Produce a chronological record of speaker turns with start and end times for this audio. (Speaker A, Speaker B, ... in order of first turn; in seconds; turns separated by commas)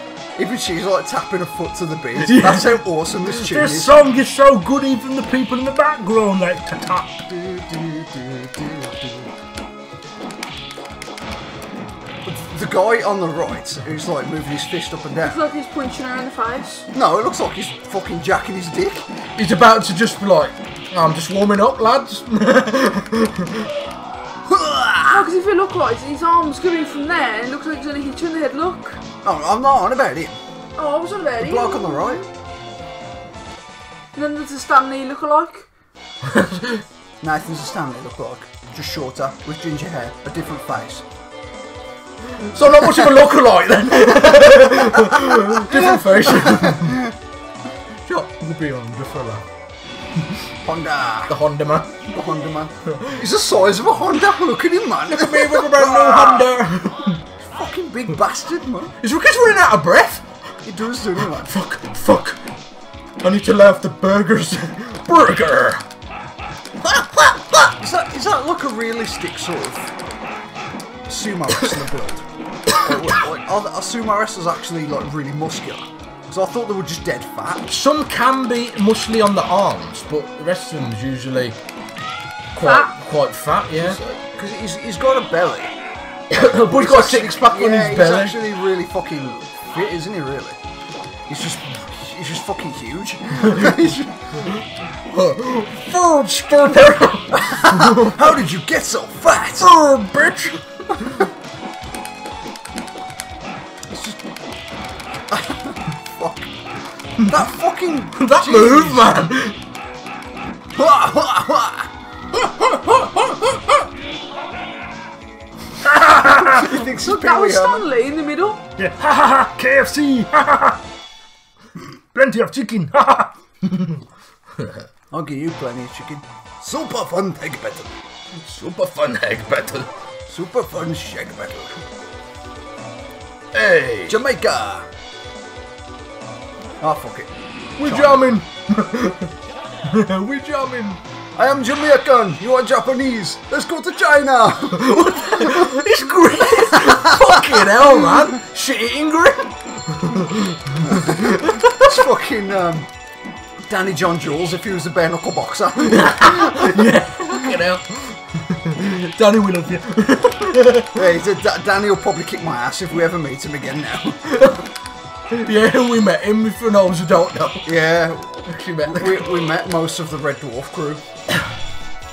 Speaker A: 0.4-4.0, Speaker B: 2.2-2.8, Speaker C: 3.2-7.2, Speaker A: 7.3-9.3, Speaker A: 12.2-15.4, Speaker D: 15.2-16.9, Speaker A: 16.9-19.1, Speaker B: 19.4-23.7, Speaker A: 24.5-25.3, Speaker D: 25.1-29.0, Speaker A: 29.2-30.4, Speaker D: 30.8-32.3, Speaker A: 31.4-32.3, Speaker D: 34.1-35.7, Speaker B: 36.2-36.8, Speaker A: 37.2-41.0, Speaker B: 42.2-47.1, Speaker A: 45.0-47.0, Speaker B: 48.0-49.5, Speaker A: 50.6-51.4, Speaker B: 51.3-52.0, Speaker A: 52.1-56.5, Speaker B: 52.9-53.2, Speaker B: 55.1-57.2, Speaker A: 57.4-58.9, Speaker B: 59.0-60.3, Speaker A: 60.6-61.5, Speaker B: 61.2-62.4, Speaker B: 63.2-65.8, Speaker B: 66.8-67.8, Speaker A: 67.8-70.0, Speaker A: 71.1-77.7, Speaker B: 77.7-81.6, Speaker B: 82.5-84.0, Speaker D: 82.6-82.9, Speaker A: 83.8-85.7, Speaker B: 86.3-88.4, Speaker A: 86.6-90.6, Speaker A: 91.3-94.5, Speaker B: 93.4-93.8, Speaker B: 94.4-98.3, Speaker A: 97.3-99.7, Speaker B: 99.6-101.1, Speaker A: 103.9-104.2, Speaker A: 105.3-106.5, Speaker A: 107.2-109.1, Speaker B: 108.2-109.6, Speaker A: 110.8-111.9, Speaker B: 112.4-113.7, Speaker C: 115.8-116.7, Speaker A: 116.2-117.9, Speaker D: 116.9-118.6, Speaker C: 118.8-120.8, Speaker C: 122.1-124.0, Speaker A: 125.1-128.0, Speaker B: 128.3-129.9, Speaker A: 130.3-131.8, Speaker B: 133.5-134.2, Speaker A: 134.1-134.9, Speaker A: 136.8-138.3, Speaker B: 137.8-141.0, Speaker A: 141.4-145.8, Speaker B: 144.7-152.1, Speaker A: 146.7-147.6, Speaker A: 150.8-152.9, Speaker A: 153.7-156.9, Speaker B: 155.8-161.0, Speaker A: 160.9-164.5, Speaker B: 165.3-167.8, Speaker A: 167.7-171.1, Speaker B: 168.5-169.2